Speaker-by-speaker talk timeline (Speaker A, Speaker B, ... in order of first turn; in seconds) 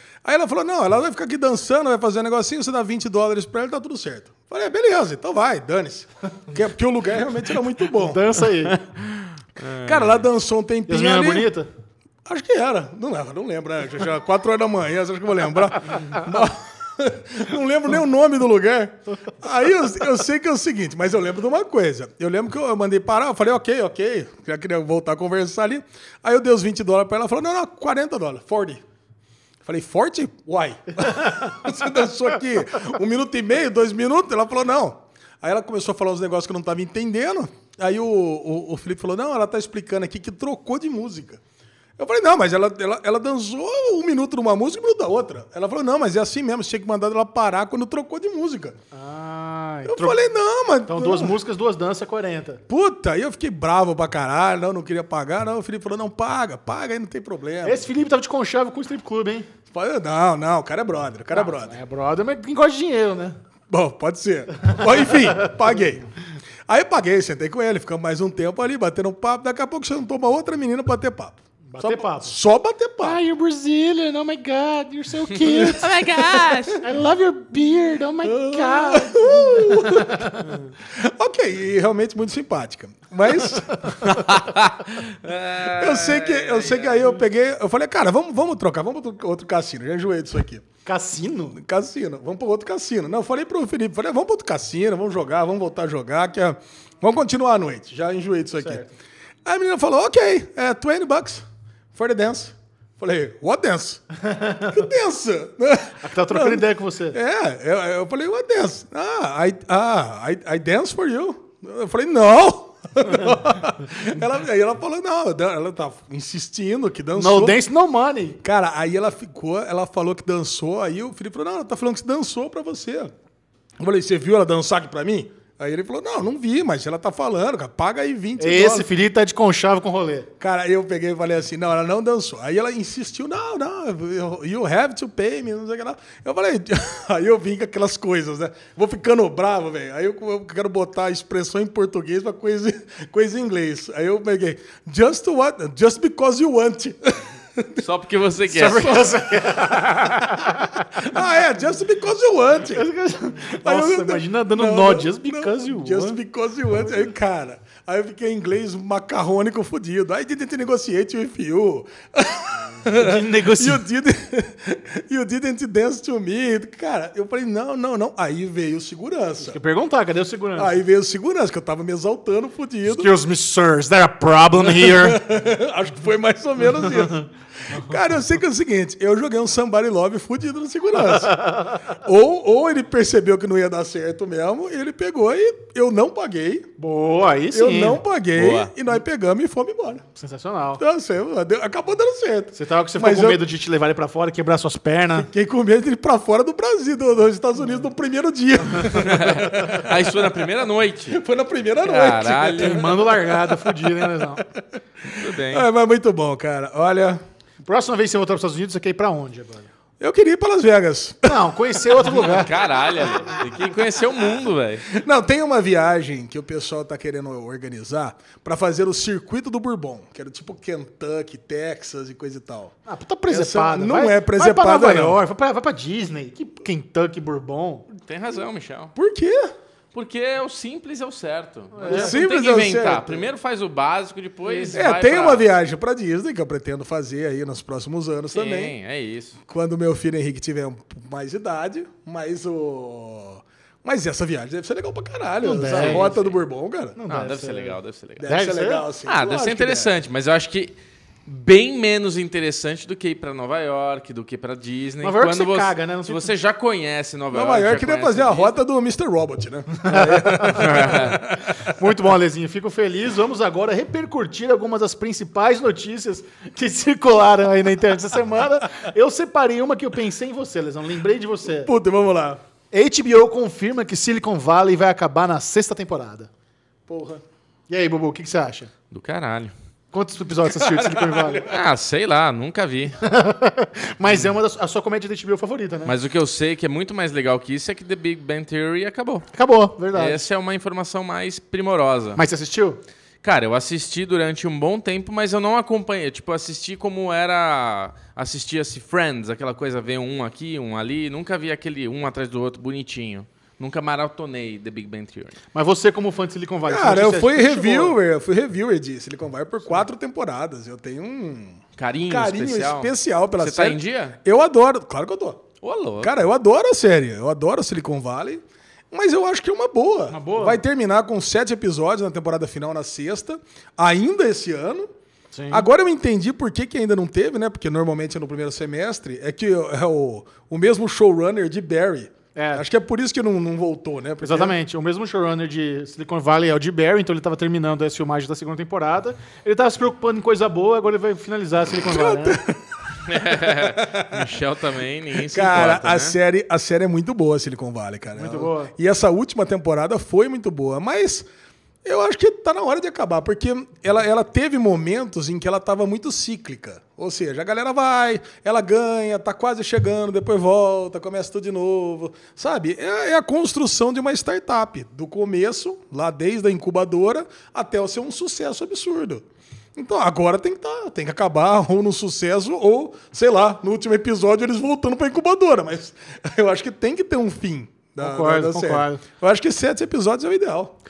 Speaker A: 0.2-8.4, 9.8-11.5, 12.2-28.8, 29.6-41.4, 42.0-48.8, 49.8-51.4, 52.7-57.9, 59.7-61.8, 63.7-66.1, 66.7-73.2, 78.2-84.4, 85.5-90.6, 91.5-98.8, 99.4-104.1, 104.6-117.6, 118.4-123.1, 123.8-128.9, 130.4-147.8, 149.3-152.9, 153.5-169.6, 170.6-173.1, 174.7-186.7, 187.5-190.0, 190.8-193.4, 195.1-200.0, 201.1-207.2, 210.0-212.1, 213.0-213.7, 214.9-222.8, 223.3-225.2, 228.9-229.5, 231.8-233.3, 234.7-238.7, 239.5-247.0, 248.2-249.9, 257.3-261.7, 271.5-272.4, 276.9-277.2, 280.4-281.6, 306.7-315.4, 316.0-324.9, 325.5-334.6, 341.8-344.3, 345.2-351.3, 351.8-380.7
Speaker B: 8.0-8.8, 10.9-11.7, 48.9-50.2, 50.9-52.6, 57.6-59.5, 61.3-63.4, 71.7-72.3, 73.0-80.7, 90.8-91.6, 98.6-98.9, 104.3-104.7, 106.0-107.2, 117.1-118.4, 128.4-130.3, 148.5-151.1, 152.7-156.2, 162.8-163.8, 169.4-170.8, 172.8-175.2, 181.3-181.8, 186.8-188.0, 190.1-190.8, 192.5-195.3, 202.5-204.4, 207.6-209.7, 211.2-213.3, 222.9-227.9, 231.7-232.2, 234.4-234.8, 245.4-246.2, 247.0-248.9, 255.0-256.3, 259.8-271.7, 272.7-276.3, 277.7-278.7, 279.9-281.5, 283.0-285.9, 289.3-290.2, 292.1-292.8, 305.5-308.0, 320.1-320.6, 325.3-325.7, 332.3-332.6, 334.2-342.4, 348.1-348.7, 378.0-379.0
Speaker C: 8.7-10.2, 75.4-76.8, 84.0-87.2, 147.8-149.1, 188.3-188.7, 198.9-201.2, 201.8-202.9, 205.1-205.7, 212.0-214.9, 227.9-228.9, 229.9-235.5, 238.3-239.4, 245.7-246.3, 247.1-248.3, 249.1-250.7, 251.2-258.6, 260.4-261.2, 278.9-279.5, 281.5-283.0, 285.9-289.3, 289.9-292.2, 293.2-305.4, 311.8-314.1, 315.6-316.1, 343.0-346.1